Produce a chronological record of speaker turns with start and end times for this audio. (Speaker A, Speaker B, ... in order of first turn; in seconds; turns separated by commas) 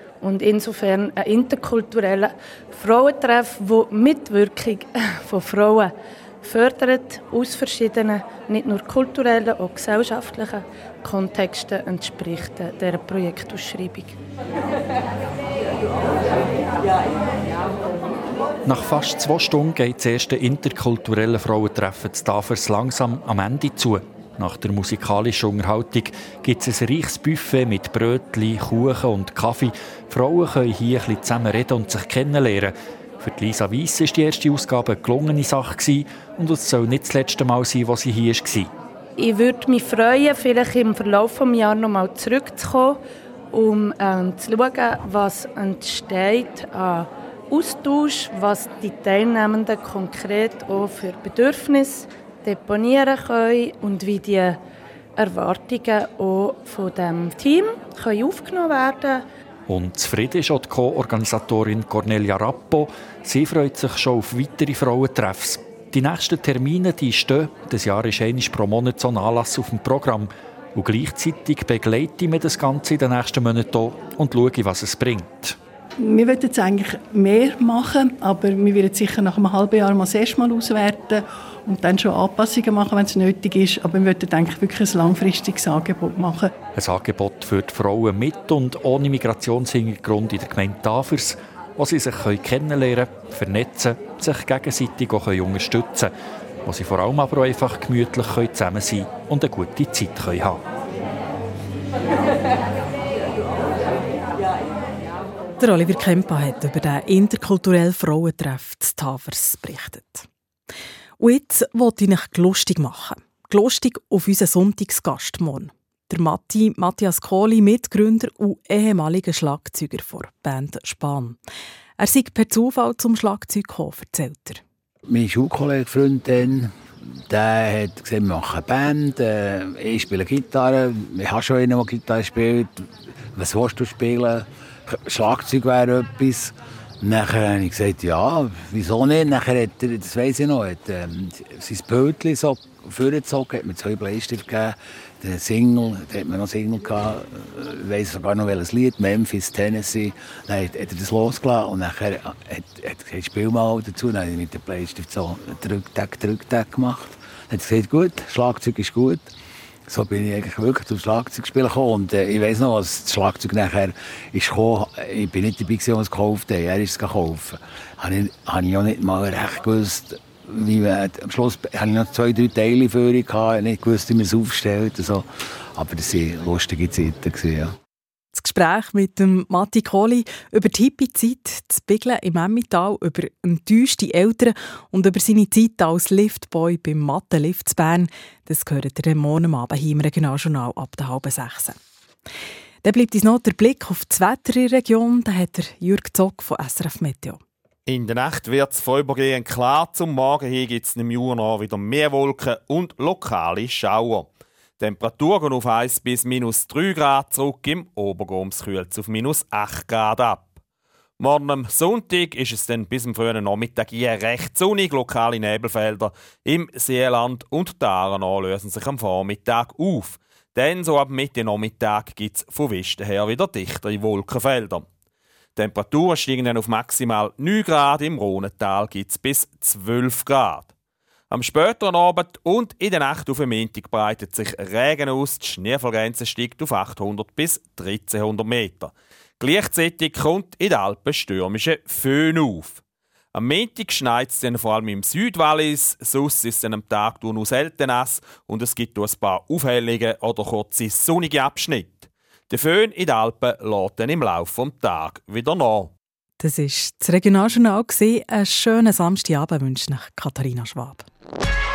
Speaker A: 0.2-14.1, Speaker B: 18.6-38.7, Speaker A: 39.1-43.0, Speaker A: 43.5-54.6, Speaker A: 55.2-59.2, Speaker B: 59.7-75.6, Speaker C: 76.0-86.5, Speaker B: 86.7-96.1, Speaker B: 96.6-100.6, Speaker D: 105.6-110.3, Speaker D: 111.2-121.4, Speaker D: 122.0-124.6, Speaker E: 125.1-126.7, Speaker E: 127.3-159.3, Speaker E: 159.9-177.7, Speaker D: 178.3-191.8, Speaker D: 192.8-197.4, Speaker F: 197.9-204.3, Speaker F: 204.8-210.5, Speaker F: 211.2-224.8, Speaker F: 225.6-230.7, Speaker F: 231.3-242.8, Speaker F: 243.3-255.9, Speaker D: 256.4-261.1